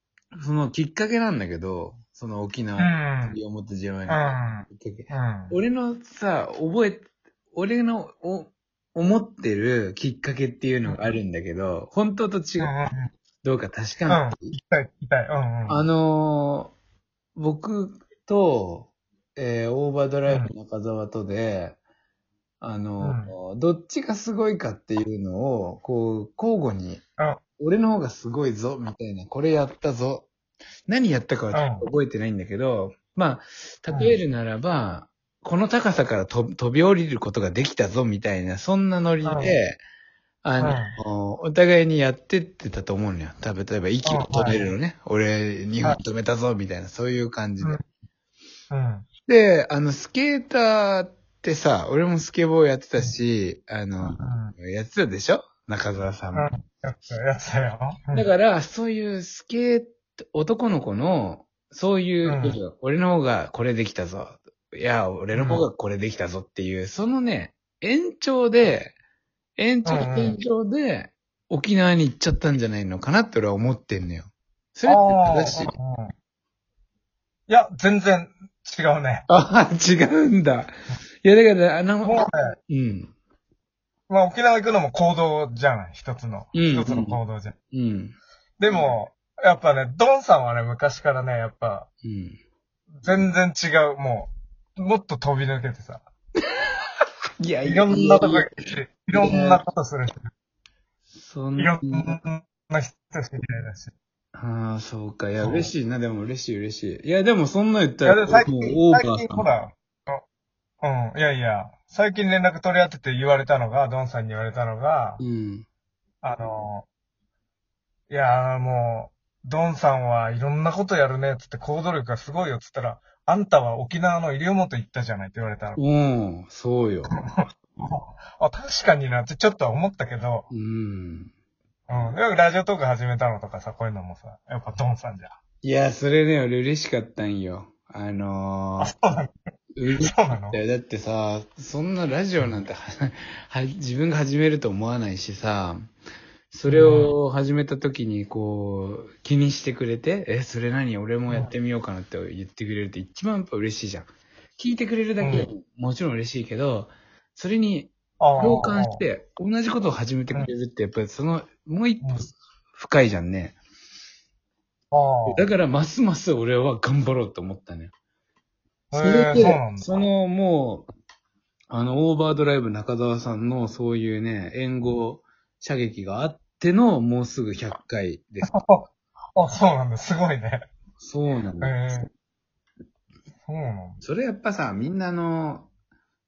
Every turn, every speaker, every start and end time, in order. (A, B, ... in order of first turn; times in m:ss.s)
0:00.3-0:12.7 A
0:02.8-0:03.4 B
0:04.1-0:05.6 B
0:12.6-0:13.1 B
0:13.4-0:14.5 A
0:14.1-0:15.8 B
0:15.7-0:16.8 A
0:17.4-0:21.8 A
0:22.6-0:27.0 A
0:23.0-0:23.3 B
0:27.6-0:30.3 A
0:30.9-0:39.8 A
0:31.5-0:31.8 B
0:33.9-0:34.2 B
0:39.2-0:39.6 B
0:40.4-0:47.8 A
0:40.6-0:41.0 B
0:44.0-0:44.7 B
0:48.7-0:49.1 B
0:49.3-0:56.5 A
0:54.0-0:54.5 B
0:56.3-0:58.3 B
0:58.1-1:09.0 A
1:02.2-1:02.6 B
1:05.3-1:05.7 B
1:09.6-1:15.7 A
1:09.8-1:10.4 B
1:14.9-1:16.1 B
1:17.5-1:19.3 B
1:19.3-1:20.7 A
1:21.2-1:23.1 A
1:22.0-1:22.5 B
1:24.1-1:27.5 B
1:26.5-1:27.2 A
1:27.7-1:28.2 A
1:28.6-1:31.9 B
1:32.0-1:32.4 A
1:33.0-1:36.0 B
1:37.4-1:38.5 A
1:37.6-1:40.3 B
1:39.1-1:39.6 A
1:41.2-1:42.2 A
1:41.6-1:43.9 B
1:44.4-1:49.5 A
1:45.4-1:45.7 B
1:48.0-1:50.2 B
1:50.8-1:55.2 B
1:55.2-1:55.7 A
1:56.2-1:56.9 B
1:58.1-2:05.8 B
2:05.8-2:07.1 A
2:07.4-2:10.5 B
2:10.5-2:11.3 A
2:11.9-2:15.4 B
2:15.6-2:18.9 A
2:18.8-2:19.3 B
2:19.8-2:25.9 A
2:20.0-2:20.6 B
2:26.5-2:43.6 A
2:26.7-2:27.1 B
2:35.2-2:35.5 B
2:38.2-2:39.0 B
2:44.9-2:45.4 B
2:45.3-2:47.9 A
2:48.9-2:50.1 B
2:49.0-2:50.9 A
2:51.7-2:58.5 A
2:58.4-2:58.8 B
2:59.4-3:00.7 B
3:01.0-3:01.8 A
3:01.6-3:02.1 B
3:03.5-3:04.0 B
3:04.0-3:05.7 A